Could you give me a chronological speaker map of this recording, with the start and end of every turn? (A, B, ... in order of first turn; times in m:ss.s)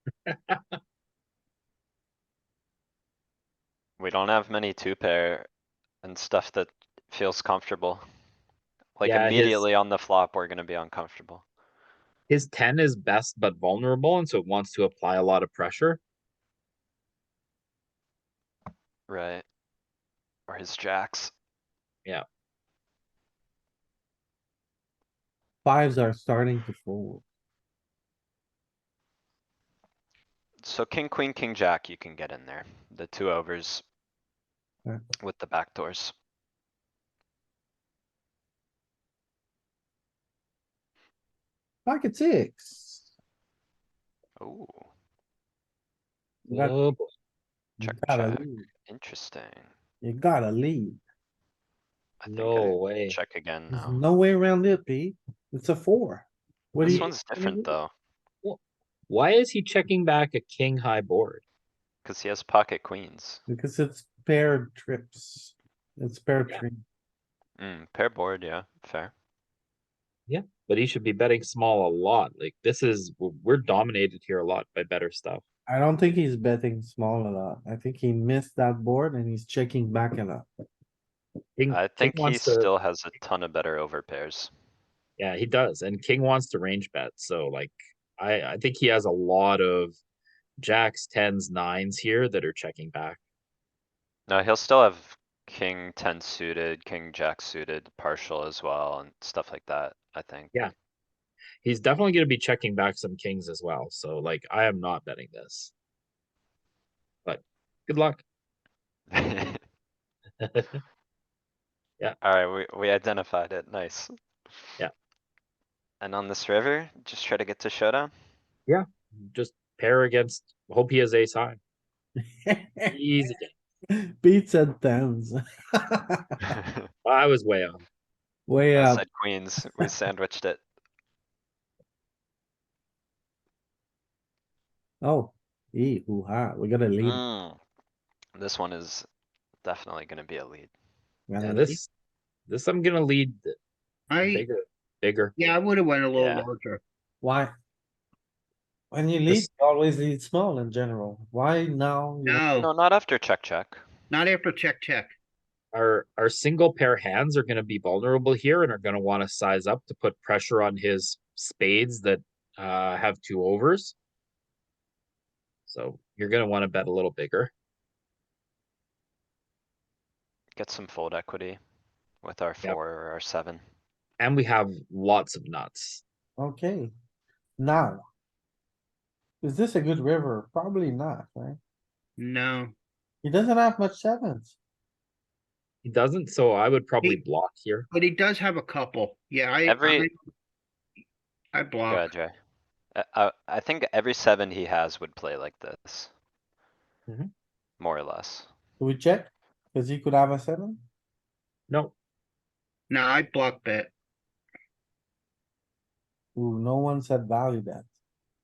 0:00.3-0:00.8 A
0:04.0-0:05.5 B
0:06.0-0:08.0 B
0:09.0-0:11.4 B
0:09.0-0:09.6 A
0:12.3-0:16.0 A
0:19.1-0:19.4 B
0:20.5-0:21.3 B
0:25.6-0:27.2 C
0:30.6-0:33.8 B
0:35.2-0:36.1 B
0:41.8-0:43.0 C
0:44.4-0:44.9 B
0:46.4-0:46.7 C
0:46.5-0:47.1 A
0:47.8-0:48.6 C
0:47.8-0:49.7 B
0:50.0-0:51.0 C
0:52.2-0:54.0 B
0:52.3-0:53.2 A
0:53.7-0:57.7 C
0:56.8-0:57.9 B
0:56.8-0:57.1 A
0:58.4-1:01.4 A
1:02.0-1:03.4 B
1:03.5-1:06.8 C
1:07.6-1:09.1 B
1:10.3-1:15.4 A
1:15.7-1:20.4 C
1:21.6-1:22.7 A
1:21.7-1:24.5 B
1:25.2-1:30.0 A
1:30.6-1:33.2 A
1:34.3-1:40.7 B
1:41.6-1:45.7 A
1:47.2-1:48.2 A
1:49.1-1:49.6 B
1:50.4-1:50.8 A
1:52.2-1:54.6 B
1:56.0-1:58.1 B
1:58.7-2:01.6 A
2:02.2-2:02.9 C
2:02.9-2:03.5 A
2:03.9-2:06.4 C
2:07.0-2:07.8 A
2:08.5-2:09.0 C
2:08.7-2:10.6 B
2:15.0-2:17.2 C
2:17.0-2:17.6 B
2:18.3-2:19.1 B
2:19.6-2:20.7 B
2:21.3-2:21.8 C
2:21.4-2:21.9 A
2:22.5-2:23.6 A
2:24.1-2:24.4 D
2:24.2-2:25.4 A
2:25.4-2:26.8 D
2:26.1-2:26.5 B
2:27.2-2:27.5 C
2:28.9-2:32.4 C
2:32.2-2:32.7 D
2:32.6-2:33.8 B
2:34.1-2:35.1 D
2:35.7-2:43.9 A
2:45.7-2:47.5 A
2:50.5-2:51.6 B
2:52.2-2:53.6 B
2:54.2-2:56.0 A
2:56.4-2:56.9 C
2:57.6-2:58.0 C
2:59.4-3:01.6 C
3:02.2-3:02.7 D
3:03.2-3:04.6 C
3:05.8-3:07.9 A
3:07.9-3:10.2 D
3:09.6-3:10.1 B
3:11.5-3:12.1 D
3:11.9-3:12.3 B
3:12.9-3:16.1 B
3:17.8-3:18.5 B
3:18.8-3:20.8 C
3:21.7-3:21.9 A
3:22.9-3:23.9 D
3:26.3-3:27.9 C